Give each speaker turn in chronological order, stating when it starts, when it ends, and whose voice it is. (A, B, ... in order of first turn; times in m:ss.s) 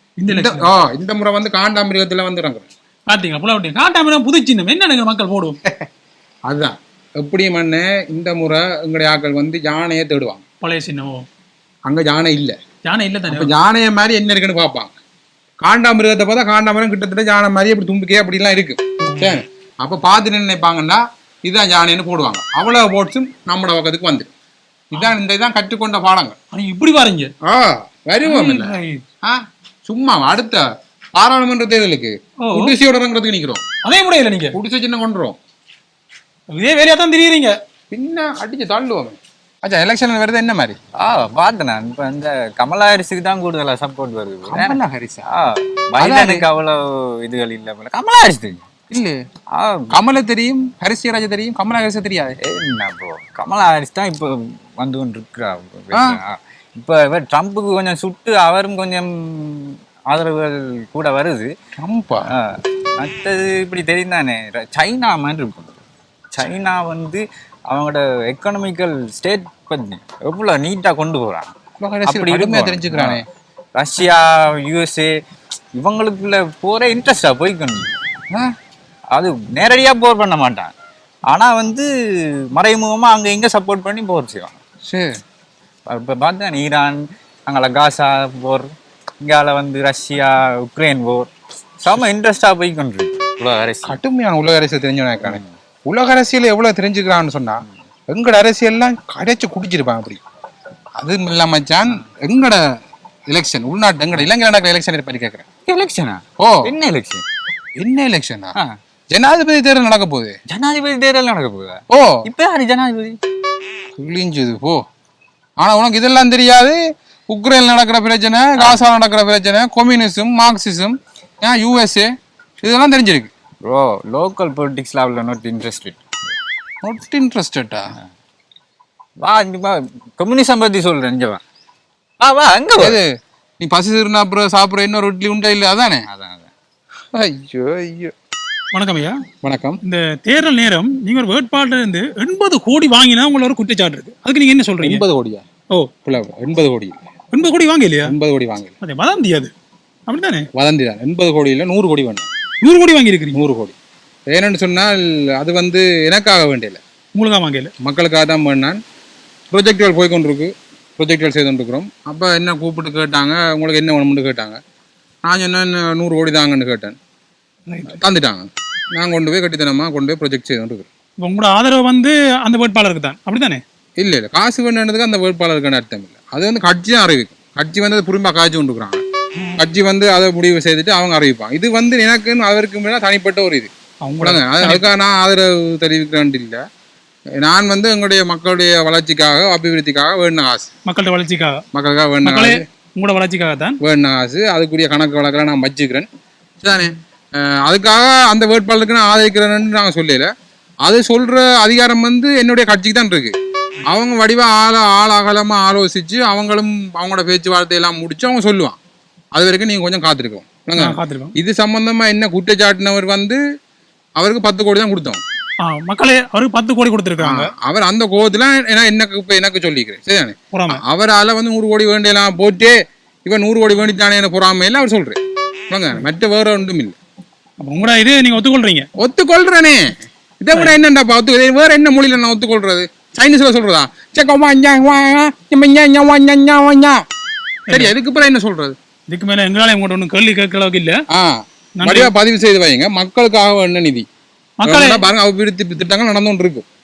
0:00.2-0:00.7 A
0:00.3-0:02.7 B
0:03.1-0:05.6 A
0:06.5-0:10.4 B
0:10.6-0:11.3 A
0:11.9-0:12.6 B
0:12.9-0:13.6 A
0:13.3-0:14.9 B
0:15.6-0:24.3 B
0:19.0-0:19.4 A
0:24.9-0:26.4 B
0:26.5-0:27.3 A
0:27.4-0:30.6 B
0:28.2-0:29.0 A
0:31.2-0:33.6 B
0:32.4-0:32.8 A
0:33.8-0:34.6 A
0:34.5-0:35.4 B
0:36.6-0:37.6 A
0:37.9-0:40.8 B
0:41.0-0:48.6 C
0:44.5-0:45.3 B
0:46.0-0:46.5 B
0:48.9-0:49.2 B
0:49.5-0:50.0 C
0:49.9-0:52.4 B
0:52.4-1:01.5 C
0:55.9-0:56.2 B
1:01.8-1:02.3 B
1:02.3-1:05.8 C
1:06.3-1:11.5 C
1:11.8-1:13.2 B
1:12.1-1:13.2 C
1:13.8-1:15.1 C
1:15.8-1:17.9 C
1:19.1-1:20.7 C
1:21.3-1:21.9 C
1:22.5-1:24.5 C
1:24.8-1:25.1 B
1:25.9-1:34.0 C
1:33.8-1:40.2 B
1:35.2-1:35.5 C
1:41.0-1:42.6 B
1:43.3-1:45.4 B
1:45.7-1:47.2 C
1:46.4-1:46.7 B
1:47.8-1:48.5 B
1:49.1-1:50.4 B
1:50.5-1:53.2 C
1:51.9-1:52.2 B
1:54.0-1:54.8 B
1:55.6-2:02.1 B
1:58.6-1:58.9 C
2:02.6-2:03.3 B
2:03.6-2:06.0 C
2:06.8-2:07.9 B
2:09.2-2:11.4 C
2:12.2-2:13.0 C
2:12.8-2:13.1 B
2:13.6-2:16.0 B
2:16.1-2:16.5 C
2:17.2-2:18.1 B
2:18.7-2:19.2 A
2:19.4-2:19.8 B
2:19.8-2:25.0 A
2:24.8-2:25.4 B
2:26.1-2:27.0 B
2:27.3-2:28.2 A
2:28.0-2:28.7 B
2:28.8-2:29.5 A
2:30.1-2:30.5 A
2:30.6-2:32.3 B
2:32.6-2:33.4 A
2:33.3-2:33.8 B
2:34.3-2:36.8 B
2:37.2-2:37.7 A
2:37.8-2:38.8 B
2:39.5-2:44.6 B
2:45.2-2:47.0 B
2:47.7-2:48.0 A
2:47.9-2:50.9 B
2:51.2-2:53.6 A
2:54.0-2:59.0 B
2:59.6-3:03.7 B
3:04.0-3:04.8 A
3:04.2-3:06.6 B
3:07.4-3:10.7 B
3:10.9-3:11.6 A
3:11.7-3:12.6 B
3:12.2-3:13.8 A
3:13.8-3:16.1 B
3:16.6-3:20.3 B
3:20.8-3:23.4 B
3:23.9-3:28.8 B
3:29.3-3:33.4 B
3:30.8-3:31.3 A
3:34.2-3:35.2 B
3:35.6-3:37.5 A
3:37.2-3:47.0 B
3:40.5-3:40.8 A
3:47.6-3:48.9 A
3:49.0-3:49.8 B
3:50.4-3:57.0 B
3:57.7-3:57.9 A
3:57.7-3:58.8 B
3:59.1-4:01.0 A
4:01.1-4:04.1 B
4:01.8-4:02.1 A
4:04.6-4:05.1 A
4:04.7-4:06.7 B